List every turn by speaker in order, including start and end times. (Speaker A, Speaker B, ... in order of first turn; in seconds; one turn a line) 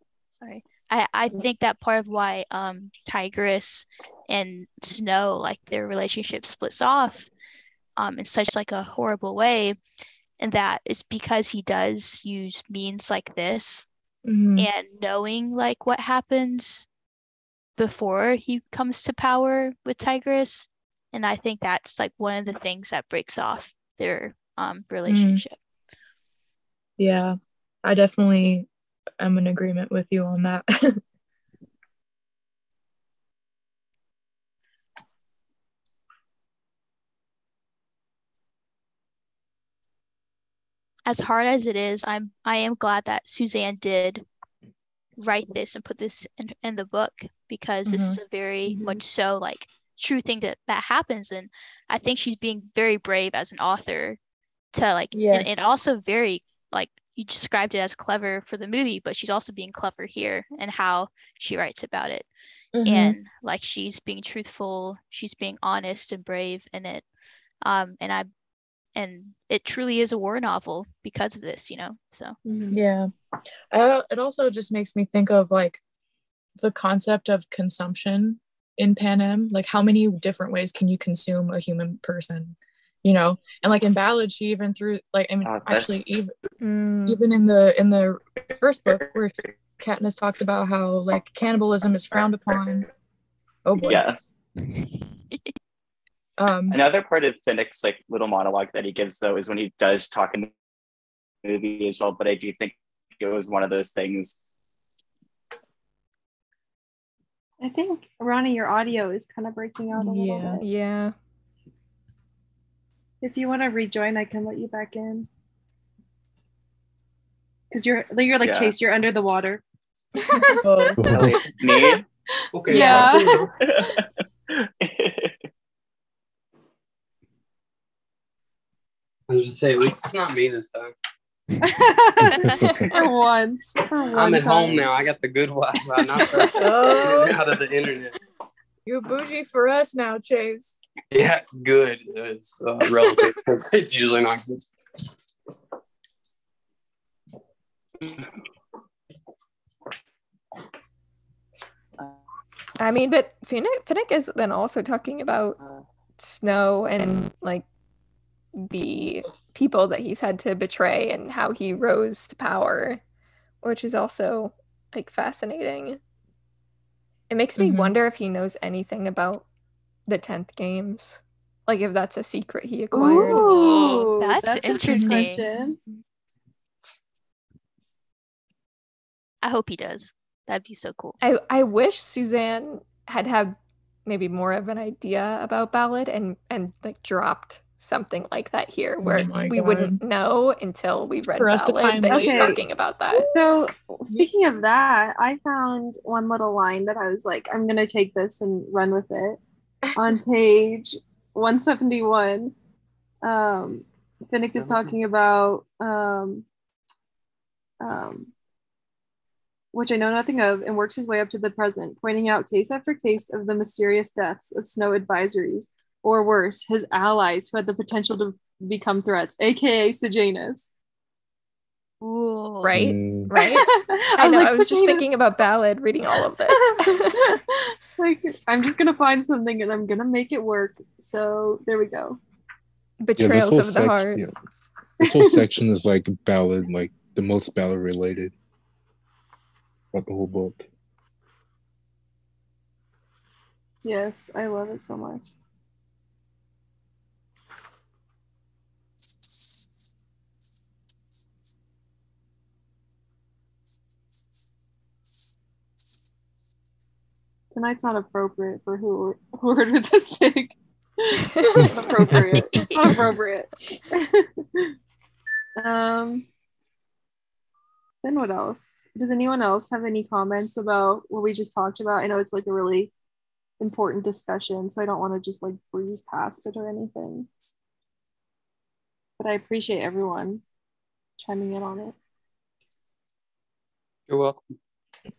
Speaker A: 0.3-7.3
Speaker A: 8.0-9.8
Speaker A: 10.4-13.9
Speaker B: 14.2-14.7
Speaker A: 14.6-16.9
Speaker A: 17.8-25.6
Speaker B: 25.1-25.4
Speaker B: 27.0-31.0
Speaker A: 41.0-44.2
Speaker A: 45.2-54.2
Speaker B: 47.9-48.2
Speaker C: 48.7-49.0
Speaker A: 54.7-62.3
Speaker B: 55.1-55.7
Speaker B: 62.7-63.2
Speaker A: 62.8-67.0
Speaker A: 67.6-68.3
Speaker A: 68.9-72.3
Speaker C: 72.4-72.8
Speaker B: 72.7-73.1
Speaker B: 73.7-75.8
Speaker B: 76.6-86.3
Speaker D: 85.4-86.1
Speaker E: 86.6-87.2
Speaker B: 87.1-92.9
Speaker D: 92.1-92.8
Speaker B: 93.7-94.3
Speaker D: 93.8-94.2
Speaker B: 96.4-96.8
Speaker D: 96.7-100.5
Speaker D: 101.4-104.4
Speaker C: 107.6-110.7
Speaker B: 109.9-110.6
Speaker E: 110.6-111.1
Speaker C: 113.2-115.3
Speaker C: 117.7-119.6
Speaker D: 118.4-118.7
Speaker C: 120.3-120.6
Speaker B: 120.6-121.0
Speaker D: 120.9-122.0
Speaker F: 121.0-121.4
Speaker G: 122.5-123.5
Speaker C: 122.7-123.4
Speaker D: 122.7-125.3
Speaker G: 129.3-130.9
Speaker C: 131.6-134.8
Speaker A: 132.3-132.6
Speaker F: 132.4-132.9
Speaker G: 134.1-138.2
Speaker C: 136.2-137.2
Speaker B: 136.5-137.4
Speaker B: 138.8-140.8
Speaker G: 141.1-144.7
Speaker E: 152.8-155.6
Speaker E: 156.2-157.6
Speaker E: 158.5-163.0
Speaker E: 163.6-166.0
Speaker E: 167.3-169.4
Speaker B: 167.6-167.9
Speaker E: 170.1-173.4
Speaker C: 172.9-175.8
Speaker A: 173.3-175.4
Speaker B: 174.9-175.3
Speaker A: 179.4-181.2
Speaker E: 181.2-193.3
Speaker B: 189.0-190.0
Speaker B: 191.4-192.6
Speaker C: 192.1-199.4
Speaker C: 199.9-202.5
Speaker C: 203.2-206.4
Speaker C: 207.8-208.3
Speaker C: 209.7-220.7
Speaker A: 222.0-222.7
Speaker E: 222.6-227.2
Speaker F: 222.7-223.3
Speaker C: 223.3-225.1
Speaker C: 226.5-232.2
Speaker E: 233.0-234.2
Speaker F: 233.2-234.3
Speaker F: 235.0-238.3
Speaker C: 235.0-235.4
Speaker F: 239.9-240.7
Speaker C: 243.8-245.3
Speaker C: 257.5-264.7
Speaker F: 261.6-263.2
Speaker A: 262.5-263.0
Speaker C: 265.6-266.2
Speaker C: 268.0-272.9
Speaker C: 273.6-277.3
Speaker C: 279.2-280.4
Speaker C: 281.2-281.9
Speaker G: 284.1-284.5